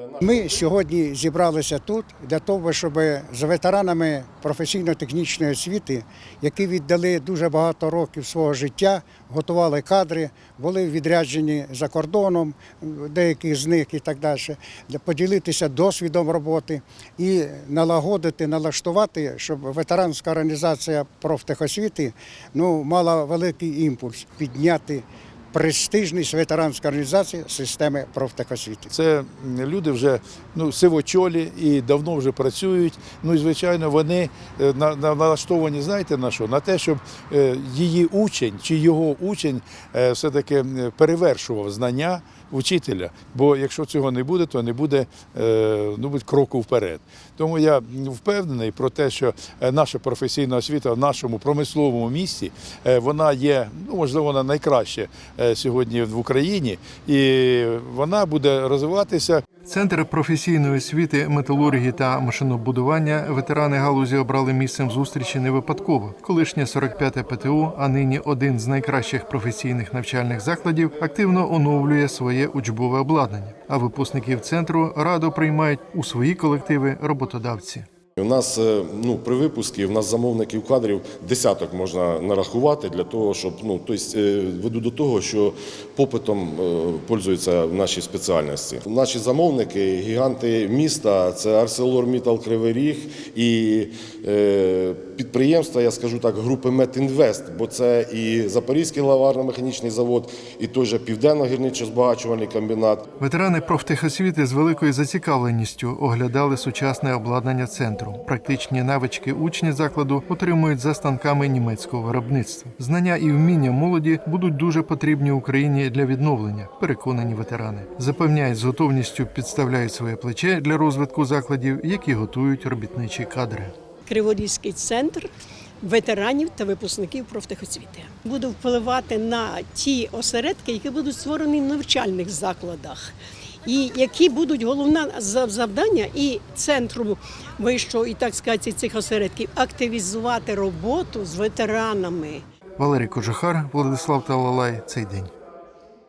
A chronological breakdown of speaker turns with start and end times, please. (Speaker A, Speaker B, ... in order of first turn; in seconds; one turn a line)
Speaker A: 0.2-28.9
Speaker B: 28.9-59.4
Speaker C: 59.6-77.9
Speaker D: 78.2-103.0
Speaker C: 103.2-123.7
Speaker E: 124.1-125.3
Speaker E: 125.8-133.1
Speaker E: 133.7-142.4
Speaker C: 142.8-145.3